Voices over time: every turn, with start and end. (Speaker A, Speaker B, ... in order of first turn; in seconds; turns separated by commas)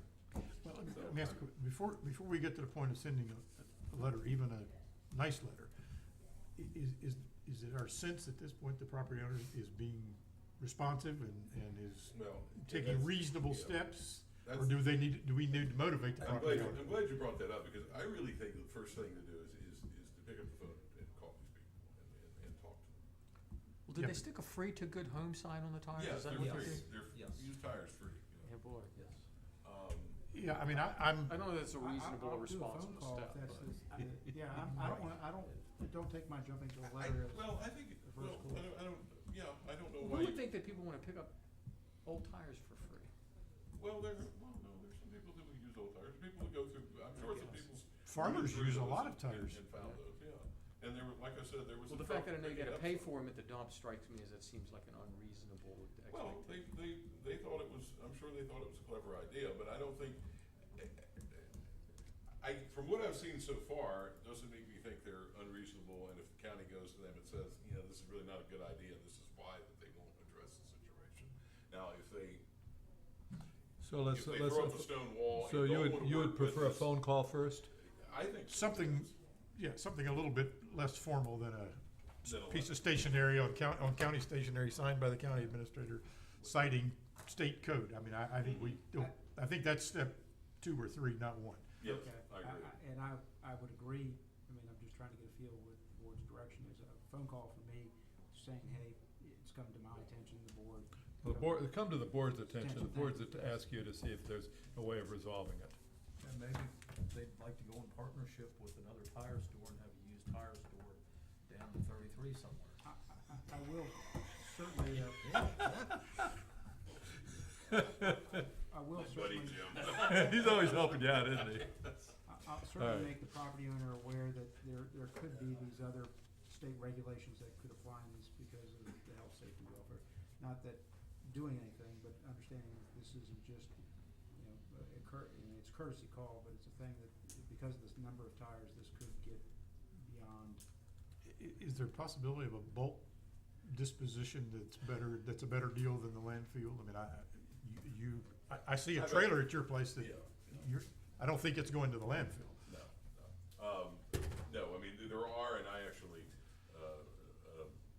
Speaker A: 0.5-5.7, Speaker B: 0.8-1.4, Speaker A: 6.5-16.9, Speaker B: 12.1-13.9, Speaker B: 14.4-14.8, Speaker B: 16.2-23.0, Speaker C: 23.9-26.8, Speaker A: 23.9-24.2, Speaker B: 25.9-28.5, Speaker D: 26.3-27.5, Speaker C: 28.4-28.9, Speaker D: 28.9-29.2, Speaker B: 29.6-30.2, Speaker A: 30.3-31.4, Speaker C: 31.2-33.8, Speaker E: 31.6-38.7, Speaker A: 34.7-35.1, Speaker B: 36.8-40.5, Speaker C: 40.0-41.4, Speaker C: 42.0-43.1, Speaker B: 43.7-53.2, Speaker A: 48.0-49.6, Speaker C: 51.9-56.7, Speaker B: 56.1-60.2, Speaker B: 60.7-61.5, Speaker B: 62.4-72.4, Speaker F: 73.8-77.7, Speaker B: 74.1-76.9, Speaker B: 77.7-79.1, Speaker A: 78.5-91.8, Speaker B: 82.2-82.8, Speaker B: 88.4-88.7, Speaker B: 91.8-92.7, Speaker E: 91.8-101.7, Speaker F: 101.2-105.8, Speaker E: 102.5-103.4, Speaker D: 106.2-112.8, Speaker E: 112.8-115.5, Speaker D: 115.2-115.9, Speaker F: 117.7-118.4, Speaker E: 118.6-120.1, Speaker B: 119.0-121.9, Speaker F: 119.9-121.7, Speaker E: 122.2-133.8, Speaker F: 122.8-123.1, Speaker E: 134.3-140.6, Speaker A: 141.2-143.0, Speaker A: 143.6-152.7, Speaker B: 148.9-150.4, Speaker B: 152.7-157.8